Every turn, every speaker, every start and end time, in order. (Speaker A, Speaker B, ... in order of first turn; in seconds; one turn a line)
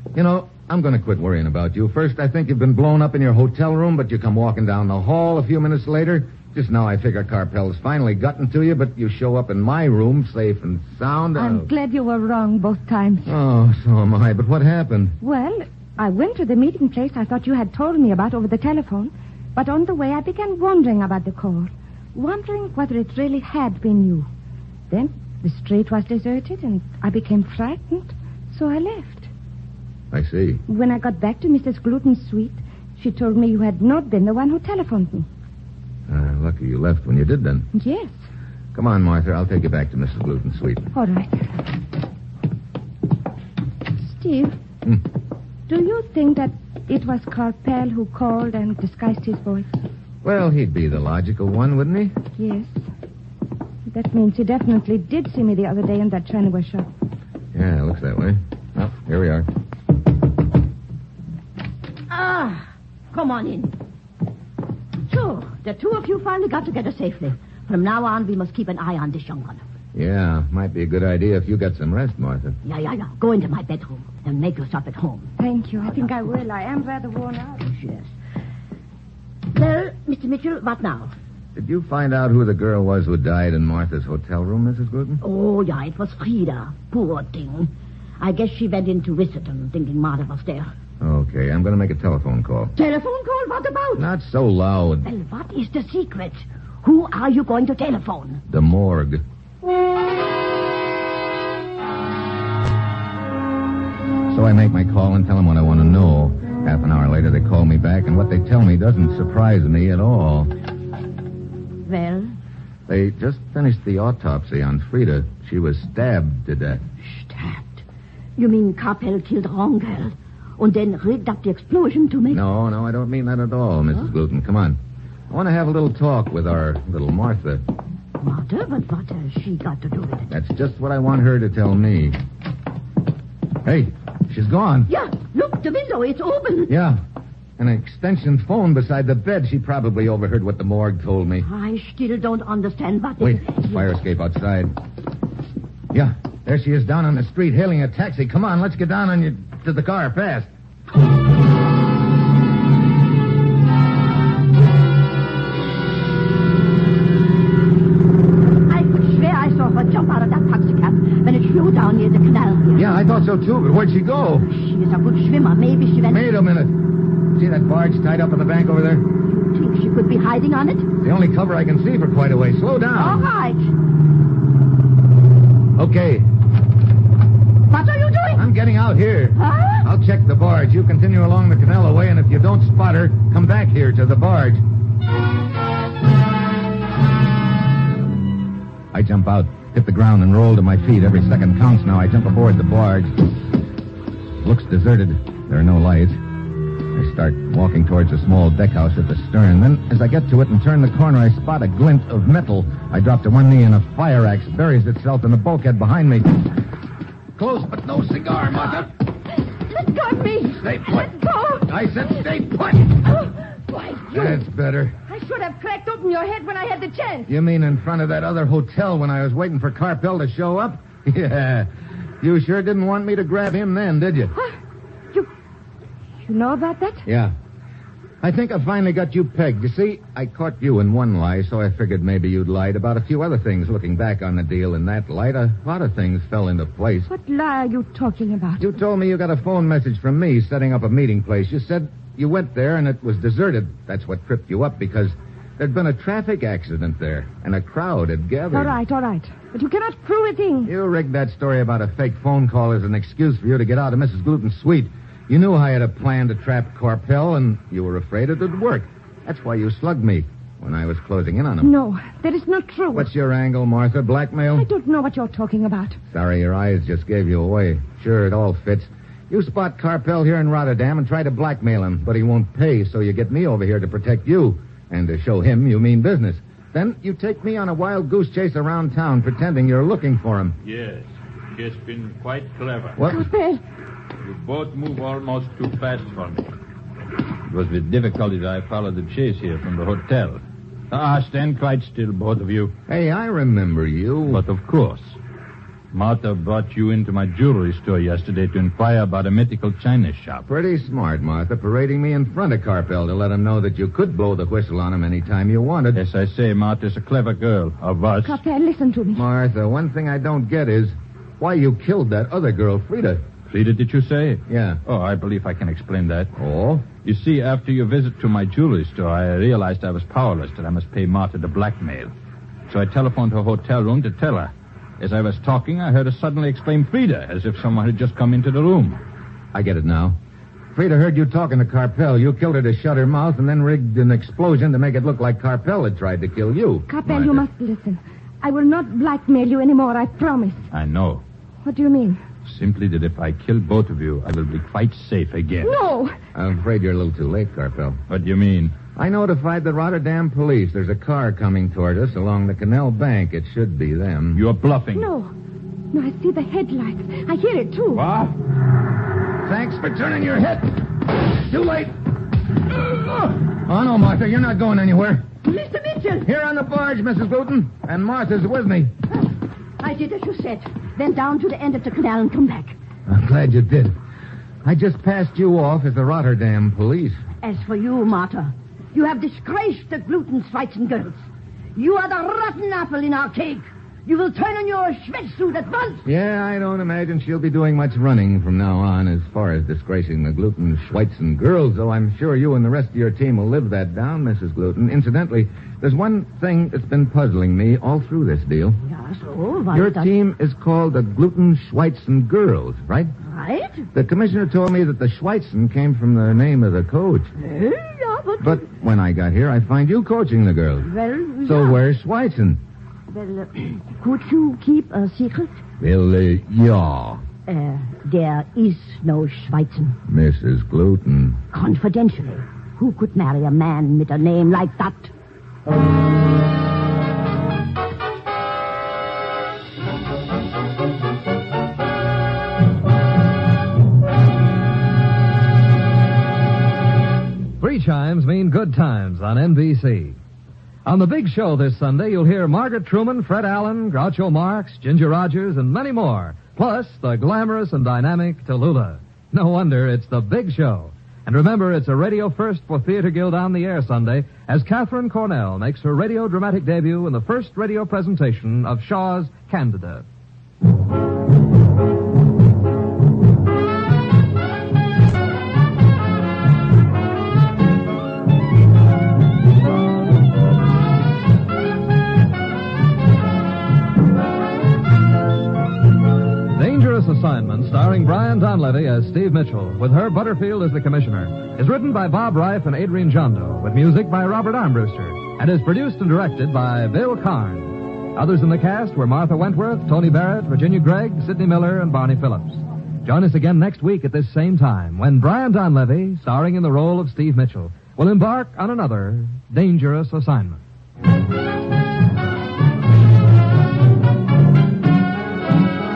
Speaker A: 0.1-11.7
Speaker B: 11.4-13.3
Speaker A: 13.3-15.2
Speaker B: 15.2-24.3
Speaker B: 24.9-29.3
Speaker A: 30.1-30.6
Speaker B: 30.7-35.3
Speaker A: 36.1-37.7
Speaker B: 37.7-38.1
Speaker A: 38.7-40.9
Speaker B: 40.9-41.5
Speaker B: 44.0-44.6
Speaker B: 45.7-49.7
Speaker A: 50.2-52.2
Speaker B: 52.4-52.7
Speaker B: 53.9-56.9
Speaker A: 57.5-59.5
Speaker C: 62.1-63.7
Speaker C: 65.1-69.6
Speaker A: 70.0-72.6
Speaker C: 72.7-75.3
Speaker B: 75.4-77.6
Speaker C: 77.6-78.1
Speaker C: 79.5-81.1
Speaker A: 81.5-85.2
Speaker C: 85.2-90.7
Speaker A: 91.0-92.7
Speaker C: 92.8-94.1
Speaker A: 94.0-95.1
Speaker C: 95.0-98.4
Speaker A: 98.5-99.2
Speaker A: 104.3-110.5
Speaker C: 111.9-112.4
Speaker A: 112.9-116.8
Speaker C: 117.0-117.8
Speaker C: 118.4-122.4
Speaker A: 122.3-124.8
Speaker A: 125.3-127.6
Speaker C: 128.2-130.3
Speaker A: 130.3-132.2
Speaker A: 133.6-134.9
Speaker C: 134.9-136.7
Speaker A: 136.7-137.0
Speaker A: 137.6-141.5
Speaker C: 141.4-143.9
Speaker A: 143.2-144.7
Speaker A: 145.9-150.5
Speaker C: 158.7-162.8
Speaker A: 162.8-164.5
Speaker C: 164.5-166.2
Speaker A: 166.1-166.7
Speaker A: 167.3-169.1
Speaker C: 169.3-170.9
Speaker A: 171.0-173.2
Speaker C: 172.9-173.7
Speaker A: 175.8-176.3
Speaker C: 177.7-178.4
Speaker A: 178.3-184.6
Speaker C: 179.4-179.9
Speaker A: 188.9-193.3
Speaker A: 194.4-196.2
Speaker A: 196.9-206.5
Speaker A: 207.4-208.9
Speaker B: 209.7-211.7
Speaker A: 210.6-211.1
Speaker A: 211.6-213.1
Speaker C: 213.2-214.4
Speaker A: 214.1-215.0
Speaker B: 215.1-217.3
Speaker A: 217.3-221.7
Speaker A: 222.2-224.3
Speaker B: 226.2-227.1
Speaker A: 227.1-227.3
Speaker A: 228.2-237.1
Speaker B: 237.1-238.7
Speaker A: 238.6-248.8
Speaker B: 248.5-250.7
Speaker A: 250.6-261.7
Speaker B: 261.6-263.1
Speaker A: 262.9-264.7
Speaker B: 264.6-266.0
Speaker A: 266.1-280.6
Speaker D: 280.6-283.0
Speaker A: 283.0-283.3
Speaker B: 283.1-283.6
Speaker D: 284.2-286.5
Speaker D: 287.5-292.7
Speaker A: 292.9-294.4
Speaker D: 294.3-295.2
Speaker D: 295.9-300.5
Speaker A: 300.5-306.0
Speaker D: 305.9-308.4
Speaker B: 308.2-309.2
Speaker A: 309.1-313.3
Speaker D: 313.5-316.3
Speaker A: 314.5-314.8
Speaker A: 316.4-316.9
Speaker D: 316.9-322.1
Speaker D: 322.7-329.0
Speaker A: 329.5-330.2
Speaker A: 330.7-337.4
Speaker B: 336.9-340.6
Speaker D: 340.7-341.2
Speaker B: 341.6-342.2
Speaker D: 342.4-345.8
Speaker B: 345.6-346.1
Speaker A: 346.4-348.0
Speaker D: 348.1-348.8
Speaker A: 348.9-354.4
Speaker D: 354.3-355.1
Speaker B: 354.9-355.3
Speaker B: 355.9-358.1
Speaker D: 357.9-358.4
Speaker A: 359.4-362.0
Speaker A: 363.0-365.3
Speaker C: 365.4-366.3
Speaker A: 366.3-368.9
Speaker C: 369.8-372.8
Speaker A: 373.1-374.0
Speaker A: 374.6-377.2
Speaker C: 377.4-381.2
Speaker C: 381.8-386.1
Speaker A: 386.1-398.8
Speaker C: 398.9-400.1
Speaker A: 399.7-403.1
Speaker C: 403.2-403.9
Speaker A: 403.9-407.3
Speaker C: 407.4-408.7
Speaker A: 408.4-410.9
Speaker C: 410.9-411.8
Speaker A: 411.4-412.6
Speaker C: 413.1-415.6
Speaker A: 415.8-417.2
Speaker C: 417.5-420.0
Speaker A: 420.1-421.4
Speaker C: 421.5-425.1
Speaker E: 437.6-440.2
Speaker E: 440.9-460.1
Speaker E: 476.5-500.6